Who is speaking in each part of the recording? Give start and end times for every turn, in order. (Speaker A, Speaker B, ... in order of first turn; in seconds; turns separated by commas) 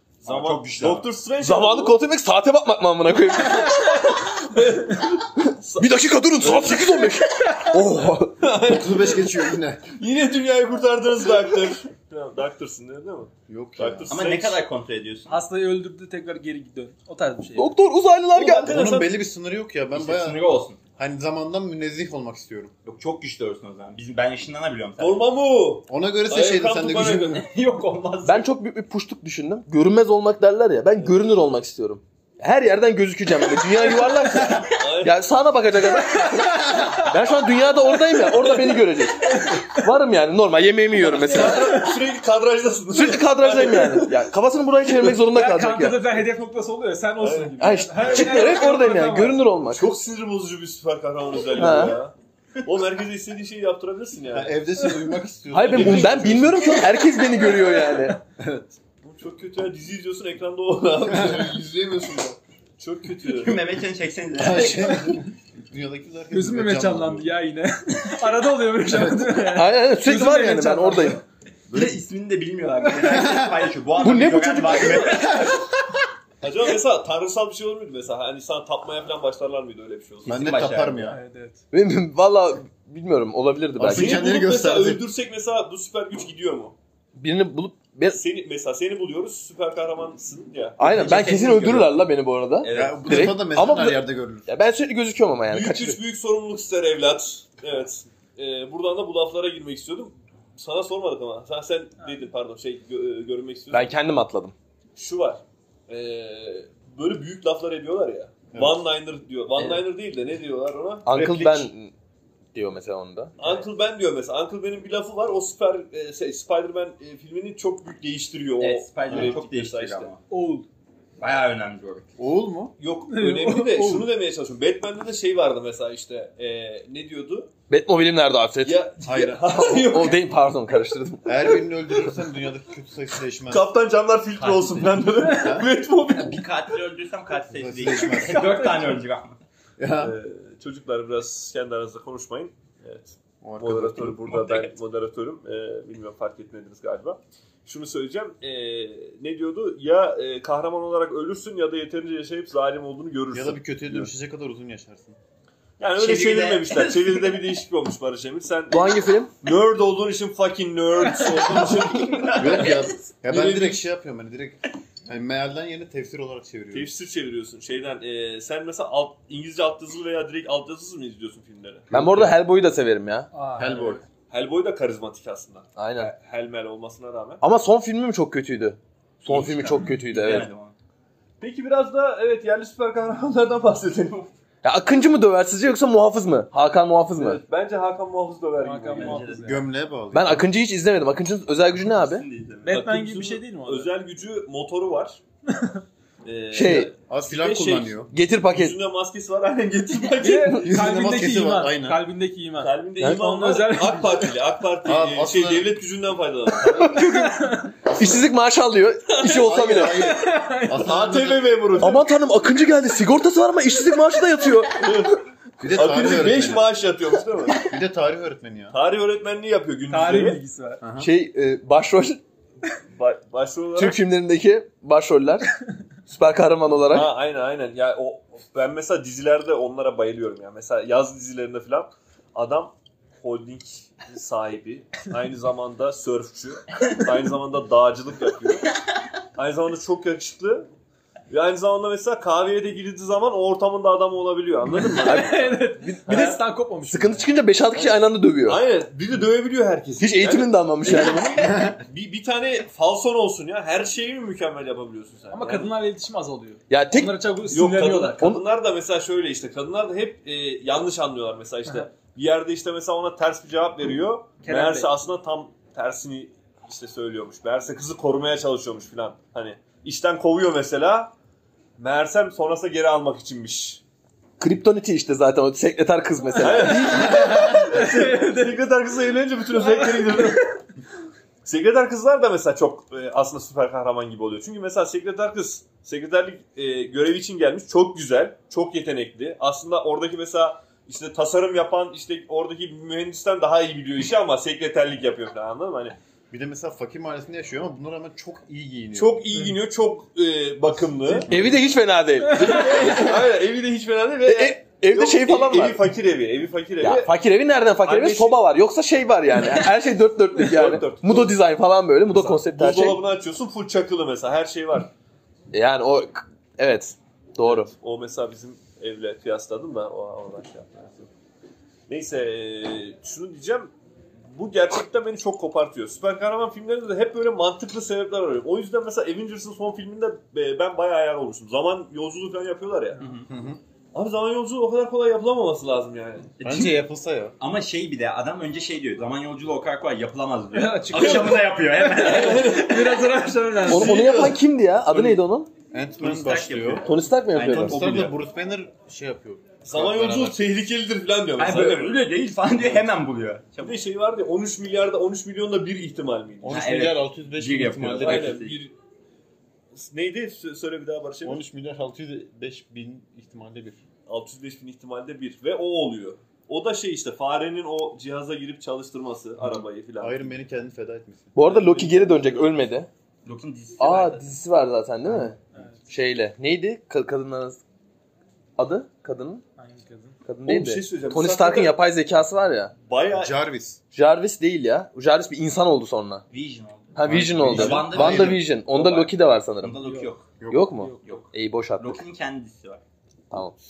Speaker A: 0.2-2.0, Speaker B: 0.2-1.1, Speaker C: 1.4-4.2, Speaker A: 4.4-7.2, Speaker C: 5.8-8.4, Speaker D: 7.2-7.8, Speaker A: 8.3-14.6, Speaker E: 8.6-9.9, Speaker E: 13.5-14.2, Speaker B: 14.1-15.4, Speaker D: 15.3-17.7, Speaker C: 17.5-18.8, Speaker A: 18.3-19.2, Speaker E: 18.7-20.4, Speaker B: 19.9-20.8, Speaker E: 21.0-22.7, Speaker B: 22.8-25.2, Speaker A: 25.0-27.4, Speaker E: 25.9-27.4, Speaker B: 27.3-28.5, Speaker C: 28.2-41.8, Speaker B: 34.1-34.7, Speaker A: 34.5-35.2, Speaker D: 36.1-37.1, Speaker D: 37.6-39.9, Speaker A: 41.0-44.3, Speaker D: 41.2-41.9, Speaker C: 42.9-46.1, Speaker D: 45.2-49.4, Speaker A: 47.2-48.6, Speaker C: 47.6-49.9, Speaker A: 49.7-54.5, Speaker C: 51.5-52.0, Speaker E: 54.3-56.7, Speaker C: 55.5-58.2, Speaker A: 55.7-56.7, Speaker D: 57.6-58.1, Speaker E: 58.4-58.7, Speaker A: 59.0-63.6, Speaker E: 61.1-62.1, Speaker B: 63.2-65.2, Speaker E: 64.4-67.3, Speaker D: 66.3-71.2, Speaker C: 69.5-71.2, Speaker B: 71.7-75.5, Speaker E: 73.0-73.7, Speaker C: 74.0-75.2, Speaker A: 74.6-75.6, Speaker E: 75.1-75.5, Speaker A: 76.4-80.5, Speaker B: 80.2-81.2, Speaker E: 80.2-81.2, Speaker D: 81.0-81.6, Speaker C: 81.7-84.2, Speaker E: 83.8-85.0, Speaker A: 83.9-86.7, Speaker C: 87.2-88.2, Speaker A: 88.1-90.8, Speaker C: 90.8-96.0, Speaker B: 90.8-92.0, Speaker B: 92.6-93.4, Speaker E: 92.7-94.5, Speaker A: 95.5-103.9, Speaker C: 103.7-104.5, Speaker A: 105.0-111.7, Speaker E: 108.5-108.8, Speaker C: 111.0-111.9, Speaker C: 112.5-113.3, Speaker A: 113.4-120.1, Speaker B: 113.4-113.7, Speaker B: 118.6-120.2, Speaker D: 120.3-120.7, Speaker B: 121.2-122.1, Speaker E: 122.2-122.7, Speaker A: 122.8-127.5, Speaker D: 123.1-124.1, Speaker C: 127.7-128.8, Speaker A: 128.6-130.2, Speaker E: 129.0-129.4, Speaker C: 129.5-131.4, Speaker E: 131.2-133.7, Speaker A: 133.5-136.5, Speaker B: 134.4-135.3, Speaker E: 135.3-135.7, Speaker B: 136.1-139.4, Speaker E: 137.5-138.7, Speaker D: 138.4-138.9, Speaker E: 139.8-140.2, Speaker A: 140.0-154.1, Speaker E: 143.4-144.5, Speaker E: 153.3-155.2, Speaker A: 155.8-163.8, Speaker B: 155.9-157.4, Speaker C: 158.7-159.3, Speaker B: 161.1-163.0, Speaker E: 162.4-166.9, Speaker A: 166.7-171.9, Speaker E: 171.9-172.4, Speaker C: 171.9-173.3, Speaker D: 173.3-174.0, Speaker E: 173.6-174.0, Speaker A: 174.3-177.4, Speaker C: 175.8-176.1, Speaker C: 177.4-180.5, Speaker B: 179.3-180.7, Speaker A: 181.4-184.3, Speaker C: 184.6-187.4, Speaker A: 187.1-189.3, Speaker D: 188.6-189.6, Speaker B: 188.9-189.6, Speaker E: 189.4-190.5, Speaker C: 190.1-192.2, Speaker B: 191.8-192.8, Speaker D: 192.6-193.9, Speaker A: 192.6-195.2, Speaker D: 195.5-195.8, Speaker A: 196.2-200.7, Speaker C: 196.5-196.9, Speaker E: 197.0-198.1, Speaker C: 198.1-198.8, Speaker D: 200.2-204.4, Speaker E: 200.6-202.0, Speaker A: 202.6-206.9, Speaker E: 204.8-205.7, Speaker C: 206.7-210.1, Speaker D: 206.9-207.7, Speaker E: 207.8-208.2, Speaker A: 209.1-209.5, Speaker E: 209.2-211.6, Speaker D: 209.9-210.9, Speaker A: 210.8-212.1, Speaker C: 211.8-215.1, Speaker A: 214.8-215.2, Speaker E: 215.6-216.7, Speaker A: 215.7-217.7, Speaker E: 217.6-218.8, Speaker A: 218.7-220.4, Speaker D: 219.9-220.8, Speaker E: 220.8-221.1, Speaker C: 221.0-222.2, Speaker A: 222.9-224.0, Speaker C: 223.8-225.5, Speaker C: 226.1-227.1, Speaker A: 226.9-238.7, Speaker A: 239.3-240.7, Speaker A: 241.3-246.4, Speaker D: 244.8-247.3, Speaker C: 245.0-248.6, Speaker A: 248.4-255.7, Speaker C: 250.0-251.4, Speaker B: 250.9-251.7, Speaker D: 255.3-258.2, Speaker C: 256.7-257.2, Speaker A: 257.5-271.1, Speaker D: 264.4-264.9, Speaker A: 271.8-273.8, Speaker C: 274.4-277.1, Speaker A: 276.4-280.6, Speaker D: 276.7-278.5, Speaker D: 279.6-280.5, Speaker A: 281.4-296.0, Speaker E: 296.3-299.2, Speaker A: 298.9-301.3, Speaker E: 301.1-301.5, Speaker C: 301.3-303.2, Speaker D: 302.3-302.9, Speaker A: 302.3-307.1, Speaker C: 304.2-305.8, Speaker C: 306.8-313.0, Speaker A: 307.8-308.4, Speaker A: 310.3-311.4, Speaker A: 312.1-314.9, Speaker C: 315.5-317.7, Speaker A: 317.4-321.1, Speaker A: 321.9-323.7, Speaker A: 324.3-333.0, Speaker B: 333.0-333.3, Speaker E: 333.3-333.6, Speaker A: 333.9-336.3, Speaker B: 336.4-336.8, Speaker E: 336.4-337.4, Speaker B: 337.4-343.0, Speaker D: 340.5-344.3, Speaker A: 340.9-342.9, Speaker A: 343.6-345.2, Speaker C: 343.7-345.5, Speaker E: 345.7-346.9, Speaker B: 346.0-348.1, Speaker C: 346.8-347.8, Speaker E: 347.4-350.4, Speaker A: 349.6-352.1, Speaker B: 351.4-353.8, Speaker A: 353.6-356.7, Speaker E: 356.4-358.4, Speaker B: 356.5-358.6, Speaker A: 357.9-358.7, Speaker A: 359.7-361.4, Speaker E: 361.2-363.8, Speaker A: 364.1-370.3, Speaker E: 370.0-371.4, Speaker C: 371.3-372.9, Speaker A: 371.4-372.6, Speaker B: 373.2-374.2, Speaker C: 373.8-375.4, Speaker D: 375.5-375.8, Speaker C: 375.9-377.6, Speaker C: 378.6-379.4, Speaker D: 379.6-380.2, Speaker C: 380.2-382.7, Speaker A: 380.4-381.8, Speaker A: 382.9-383.4, Speaker E: 383.1-383.8, Speaker C: 383.9-386.2, Speaker B: 386.3-388.4, Speaker C: 386.9-389.7, Speaker E: 387.0-388.4, Speaker A: 388.7-389.1, Speaker B: 389.6-390.3, Speaker D: 389.7-390.1, Speaker E: 390.4-390.7, Speaker C: 390.5-392.0, Speaker D: 390.7-391.2, Speaker B: 391.0-392.8, Speaker C: 393.3-393.6